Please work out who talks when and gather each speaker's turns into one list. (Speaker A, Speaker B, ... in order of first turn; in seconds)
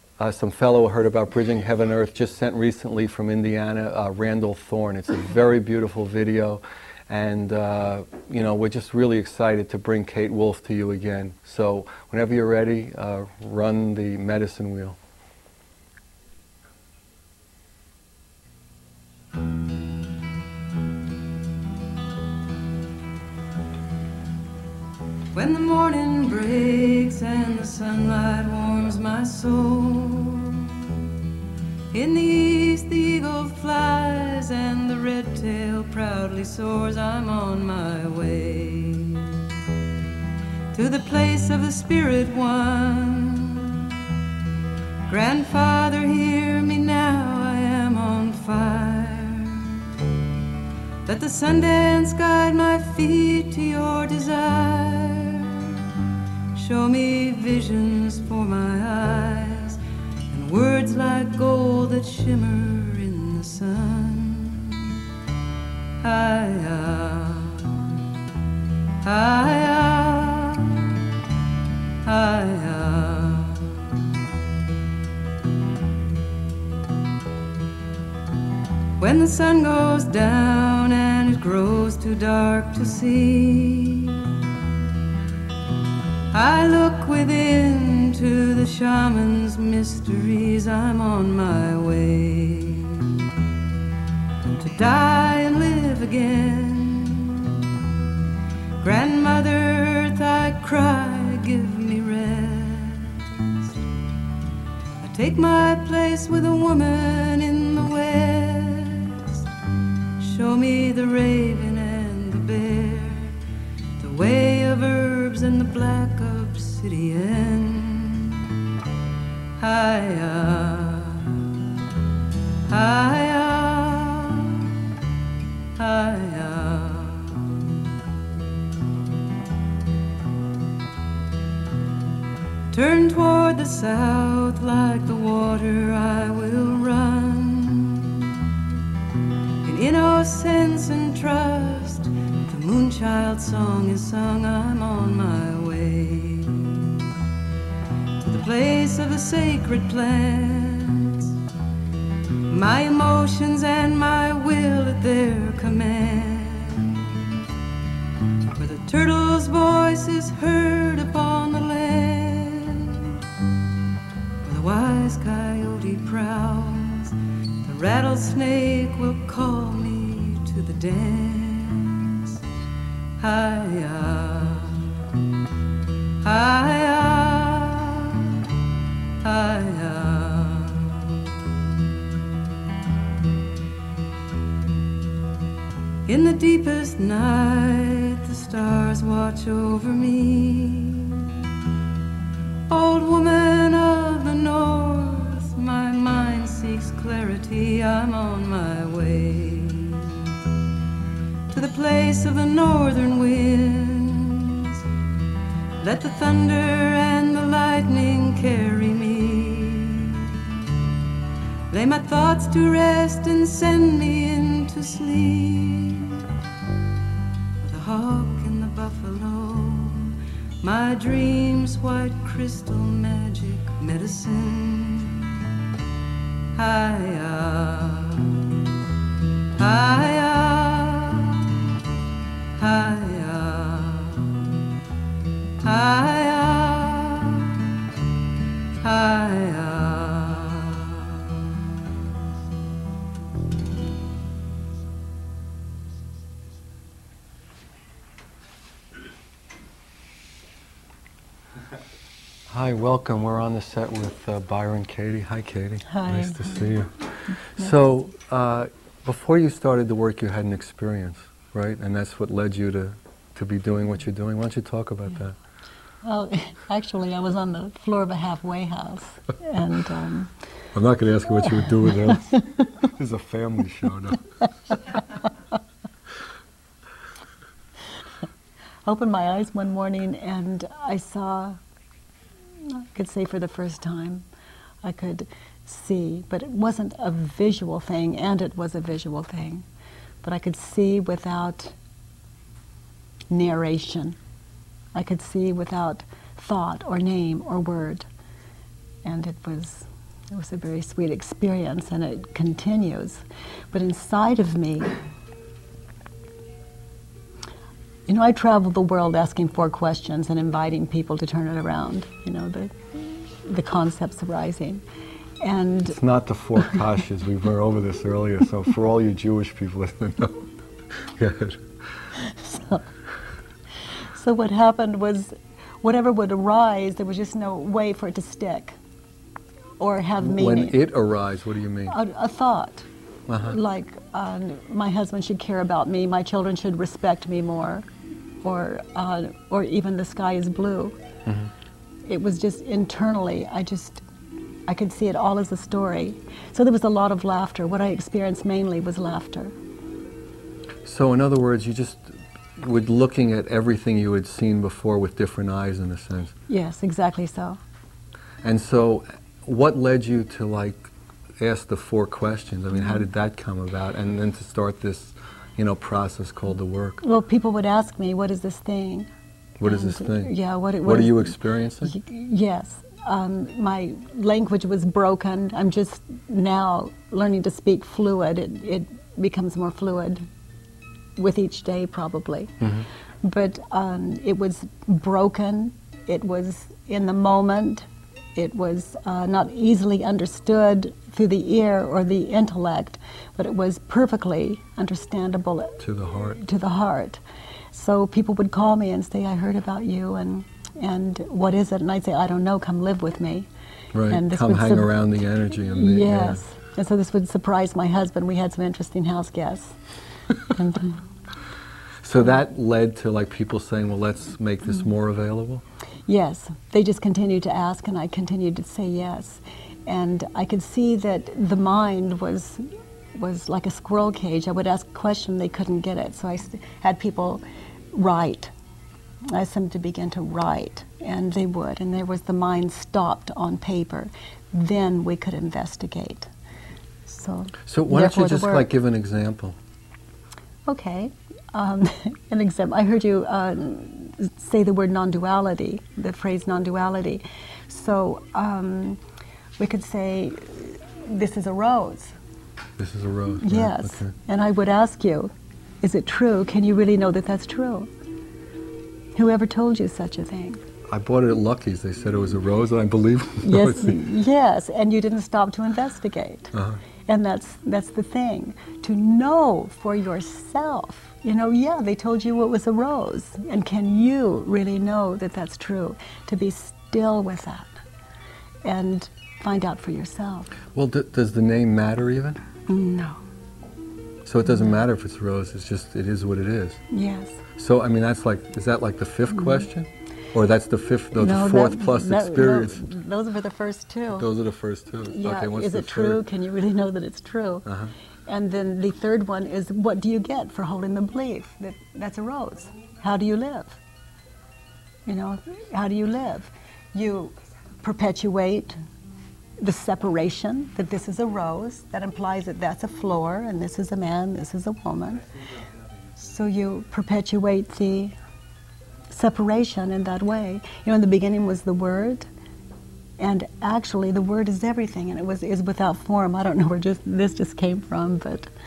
Speaker A: 0.2-15.0, 252.5-256.9, 257.5-265.4, 270.7-274.8, 315.9-322.1, 330.2-332.0, 333.3-333.6, 341.2-341.5, 350.8-356.3, 358.4-367.0, 369.6-371.9, 382.6-382.9, 395.8-396.4, 403.9-406.4, 412.0-415.6, 437.6-439.6, 452.8-454.1, 460.9-464.1, 466.5-466.8, 480.7-482.4, 484.2-486.8, 487.6-492.8, 494.1-496.2, 497.6-497.9
Speaker B: 25.3-30.9, 31.9-39.5, 40.7-43.9, 45.1-49.9, 51.0-55.8, 56.5-59.8, 60.3-65.0, 66.0-68.0, 69.0-71.1, 72.0-74.0, 79.0-84.3, 86.3-93.3, 94.6-97.7, 98.8-103.8, 105.0-109.4, 110.2-113.4, 114.0-118.5, 119.6-121.5, 122.7-124.9, 125.8-127.8, 132.7-138.6, 139.6-147.1, 148.2-151.3, 152.5-157.1, 158.5-163.2, 164.4-172.4, 173.2-174.9, 176.2-178.5, 179.2-181.4, 186.1-191.4, 192.7-200.3, 201.5-204.8, 205.8-210.5, 211.7-216.3, 217.6-225.5, 226.5-228.5, 229.6-231.6, 232.6-234.4, 235.6-237.7, 238.8-241.5
Speaker C: 255.9-256.8, 266.0-270.3, 271.9-272.7, 278.9-281.6, 282.6-284.2, 284.8-289.6, 290.2-291.8, 293.3-294.2, 294.9-298.1, 299.0-304.9, 308.1-314.8, 315.4-316.0, 322.3-322.8, 324.1-328.8, 329.8-330.8, 331.9-332.9, 333.4-337.9, 338.4-340.9, 342.1-344.0, 344.7-349.5, 356.5-357.6, 367.0-369.1, 369.6-380.2, 381.2-382.6, 383.2-395.8, 396.3-397.2, 397.7-403.5, 404.1-405.1, 405.7-409.8, 410.4-411.0, 416.1-428.5, 429.3-436.3, 437.1-438.7, 440.7-449.0, 449.6-452.1, 453.4-457.9, 459.1-460.6, 463.4-466.5, 467.1-477.7, 478.6-480.5, 482.7-483.2, 486.9-487.4, 491.1-494.3, 495.1-497.7, 498.3-503.8, 505.1-508.8, 509.6-515.3, 516.1-518.1, 519.1-522.3, 523.2-528.5